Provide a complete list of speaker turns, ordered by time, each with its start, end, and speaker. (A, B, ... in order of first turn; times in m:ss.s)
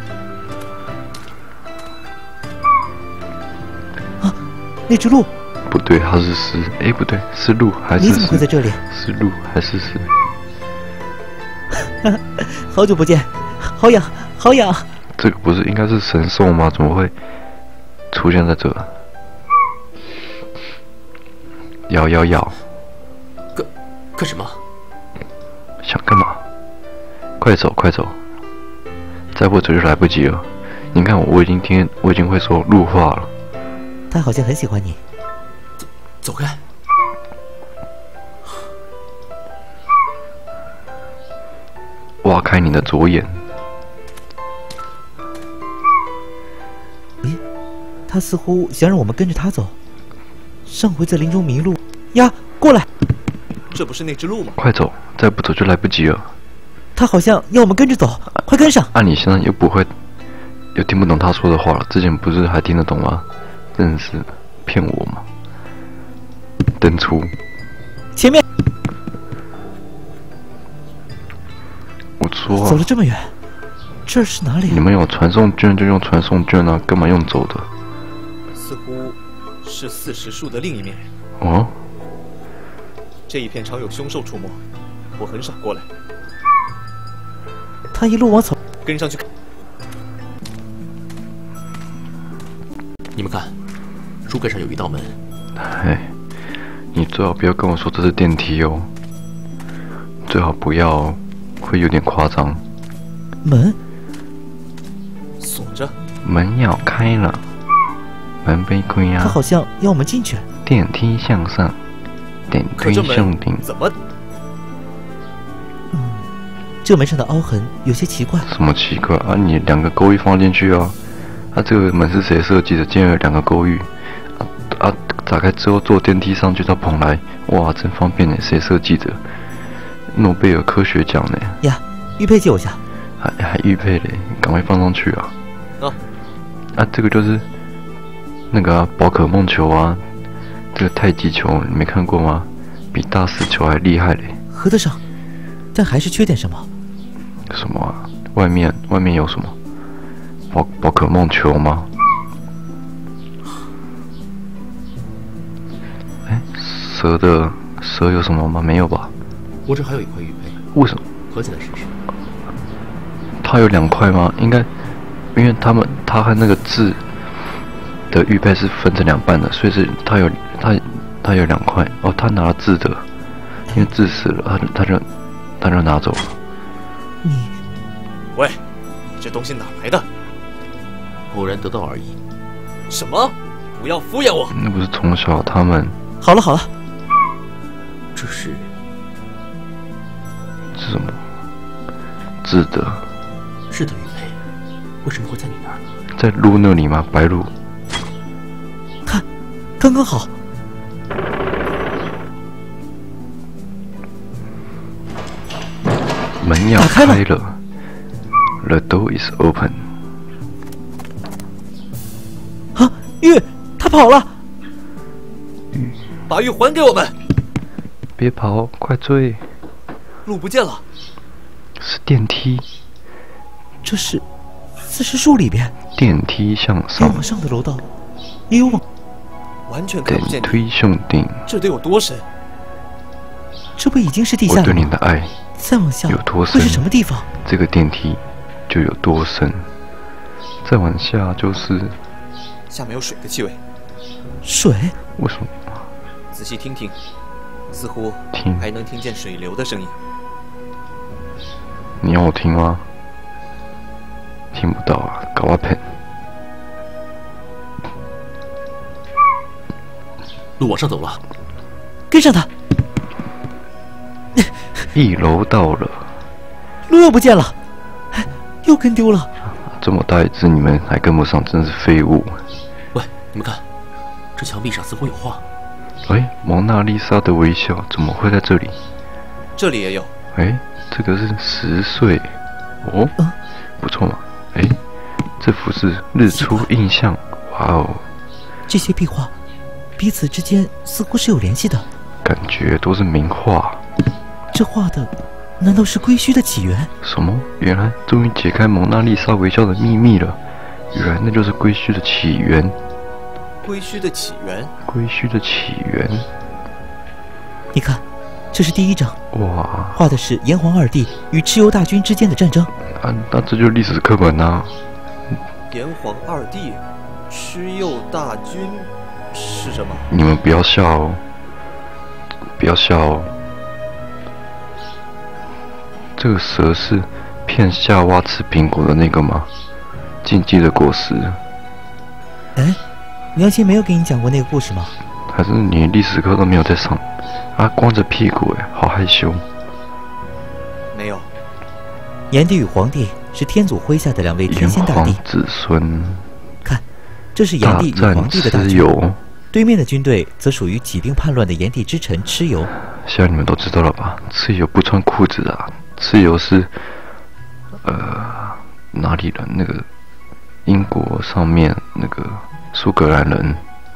0:04.2-0:05.3 A
0:05.7-0:10.2 B
0:08.0-0:08.8 A
0:11.8-0:14.9 A
0:15.2-0:17.1 B
0:18.1-0:18.9 B
0:21.9-0:22.6 B
0:23.5-0:24.6 C
0:25.8-0:26.4 B
0:27.4-0:28.2 B
0:29.3-0:33.3 B
0:34.1-0:35.0 A
0:35.8-0:36.6 C
0:42.2-0:43.4 B
0:48.1-0:49.8 A
0:50.7-0:52.9 A
0:53.7-0:54.6 D
0:54.6-0:56.3 B
0:57.0-0:58.9 A
0:58.9-0:59.9 B
1:00.8-1:05.3 B
1:06.7-1:07.4 B
1:08.2-1:08.4 A
1:12.2-1:12.9 B
1:12.6-1:13.3 A
1:14.1-1:14.8 A
1:14.7-1:17.7 B
1:18.5-1:21.0 D
1:21.4-1:21.8 B
1:23.3-1:24.6 D
1:25.2-1:25.9 D
1:27.9-1:28.6 A
1:28.8-1:29.2 D
1:33.2-1:33.6 C
1:34.2-1:35.2 C
1:35.6-1:36.2 B
1:36.9-1:38.9 B
1:40.2-1:42.6 B
1:43.4-1:43.8 A
1:45.4-1:46.0 D
1:46.2-1:47.5 B
1:48.4-1:49.4 B
1:49.2-1:50.5 A
1:50.6-1:51.8 B
1:52.5-1:53.6 B
1:52.8-1:54.0 D
1:55.9-1:56.3 A
1:56.8-1:58.5 A
1:58.4-2:01.0 B
2:01.5-2:09.2 B
2:10.1-2:11.6 B
2:11.6-2:12.8 A
2:13.2-2:15.3 B
2:16.7-2:17.5 B
2:18.5-2:20.1 B
2:20.7-2:24.4 B
2:24.5-2:25.0 A
2:25.7-2:26.7 A
2:27.5-2:29.6 B
2:30.5-2:31.9 B
2:36.2-2:39.1 B
2:39.6-2:40.6 C
2:40.7-2:41.0 B
2:41.3-2:42.0 C
2:43.4-2:44.7 B
2:45.3-2:47.0 B
2:48.1-2:53.1 B
2:53.7-2:55.1 B
2:55.6-2:56.4 B
2:57.2-2:57.6 A
2:58.4-2:58.6 D
2:59.2-3:00.1 D
3:01.3-3:02.2 C
3:02.9-3:04.5 D
3:04.5-3:06.0 B
3:06.2-3:06.7 A
3:08.1-3:08.7 C
3:10.7-3:11.2 B
3:12.4-3:13.1 B
3:13.7-3:14.4 C
3:15.0-3:15.8 C
3:16.1-3:17.5 B
3:19.8-3:20.3 A
3:26.4-3:27.6 B
3:26.8-3:27.2 A
3:28.6-3:29.9 B
3:32.8-3:34.3 A
3:36.3-3:37.1 D
3:38.2-3:39.5 B
3:40.3-3:40.8 D
3:41.8-3:42.7 B
3:43.8-3:44.2 A
3:44.9-3:45.7 A
3:46.0-3:47.2 B
3:47.0-3:47.9 A
3:48.5-3:48.8 A
3:49.7-3:50.6 D
3:50.0-3:51.5 B
3:51.5-3:52.3 D
3:53.8-3:54.9 A
3:54.5-3:55.4 B
3:55.6-3:57.3 A
3:56.1-3:56.8 B
3:57.4-3:59.7 B
4:00.6-4:02.0 B
4:02.7-4:03.6 D
4:04.4-4:05.0 A
4:05.2-4:05.8 B
4:06.3-4:07.0 D
4:07.7-4:10.0 D
4:08.3-4:08.6 B
4:12.0-4:12.9 B
4:14.5-4:15.9 B
4:20.6-4:21.2 C
4:22.1-4:22.5 A
4:24.9-4:26.1 B
4:26.9-4:27.6 A
4:28.1-4:29.3 A
4:29.4-4:32.4 B
4:32.9-4:33.6 C
4:34.4-4:35.4 C
4:36.1-4:38.8 B
4:39.6-4:40.1 D
4:40.4-4:43.2 B
4:43.8-4:44.8 B
4:45.4-4:48.1 B
4:46.3-4:46.6 A
4:48.7-4:49.3 A
4:50.0-4:51.9 A
4:52.2-4:53.8 B
4:54.5-4:56.9 A
4:57.0-5:00.4 B
5:00.9-5:02.8 B
5:03.6-5:04.7 D
5:04.8-5:06.3 B
5:07.7-5:09.2 A
5:09.3-5:10.0 B
5:10.0-5:12.7 A
5:12.9-5:14.8 B
5:15.7-5:20.1 D
5:20.1-5:21.2 B
5:22.6-5:23.3 B
5:26.2-5:29.5 B
5:30.2-5:31.4 B
5:33.4-5:35.0 A
5:35.3-5:39.5 B
5:40.9-5:41.3 D
5:42.3-5:45.2 A
5:44.5-5:46.3 B
5:47.4-5:48.9 A
5:47.6-5:49.2 B
5:49.5-5:52.7 A
5:52.9-5:56.8 B
5:57.8-5:59.9 B
6:00.7-6:03.6 B